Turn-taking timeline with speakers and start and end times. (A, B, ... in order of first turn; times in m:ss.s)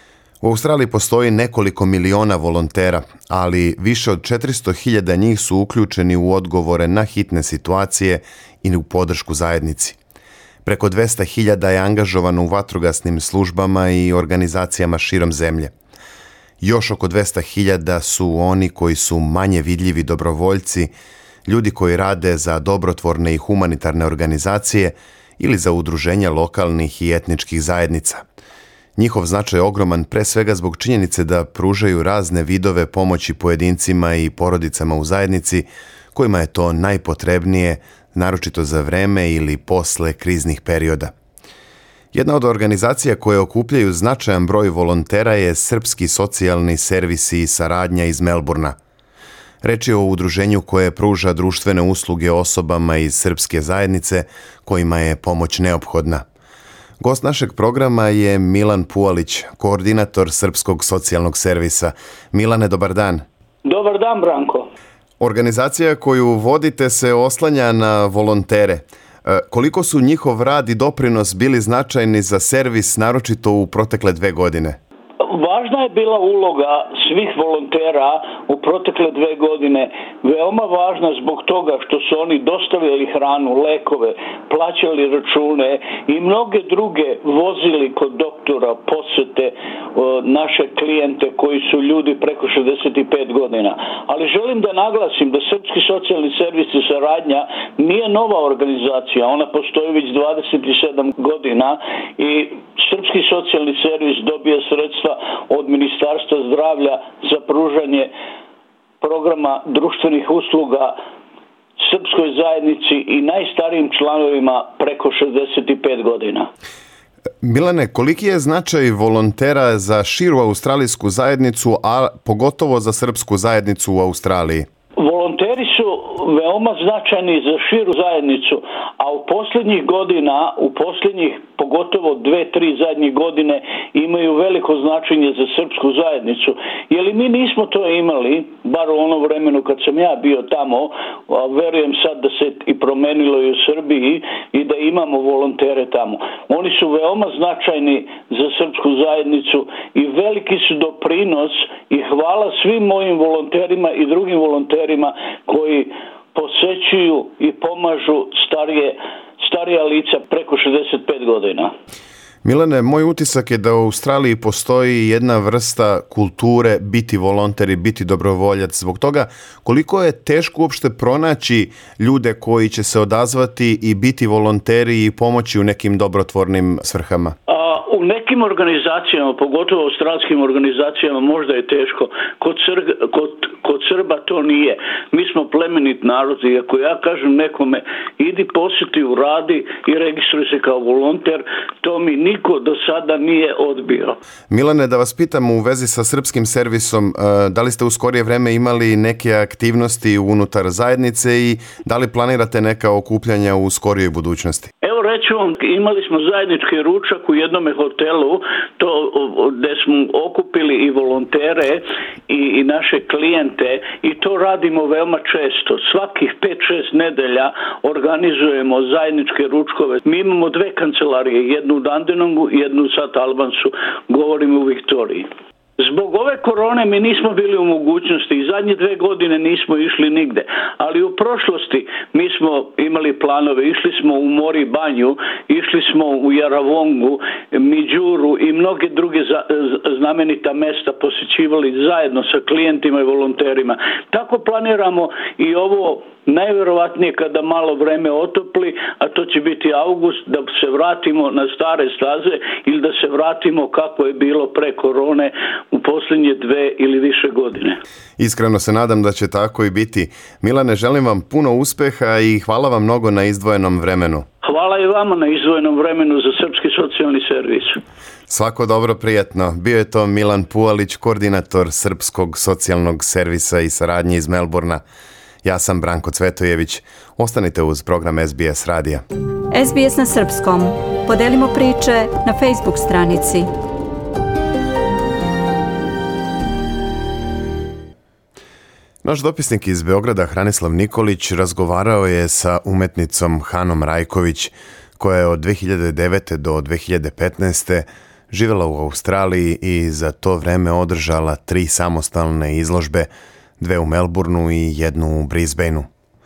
0:00.4-0:10.0 A
0:10.6-0:15.7 A
0:16.6-0:20.9 A
0:21.4-0:28.2 A
0:29.0-0:41.1 A
0:42.1-0:48.8 A
0:49.6-0:56.2 A
0:57.0-1:03.2 A
1:03.6-1:04.7 B
1:05.2-1:14.8 A
1:15.2-1:48.1 B
1:49.0-1:51.0 B
1:51.8-1:56.5 B
1:57.4-2:04.7 A
2:05.0-2:41.7 B
2:42.4-2:57.4 A
2:57.5-3:14.2 B
3:14.5-3:24.7 A
3:24.8-3:45.3 B
3:45.8-4:17.8 B
4:18.2-4:24.2 A
4:24.4-4:27.8 B
4:28.3-4:34.8 A
4:35.4-4:39.0 A
4:39.5-4:43.5 C
4:49.0-5:05.9 A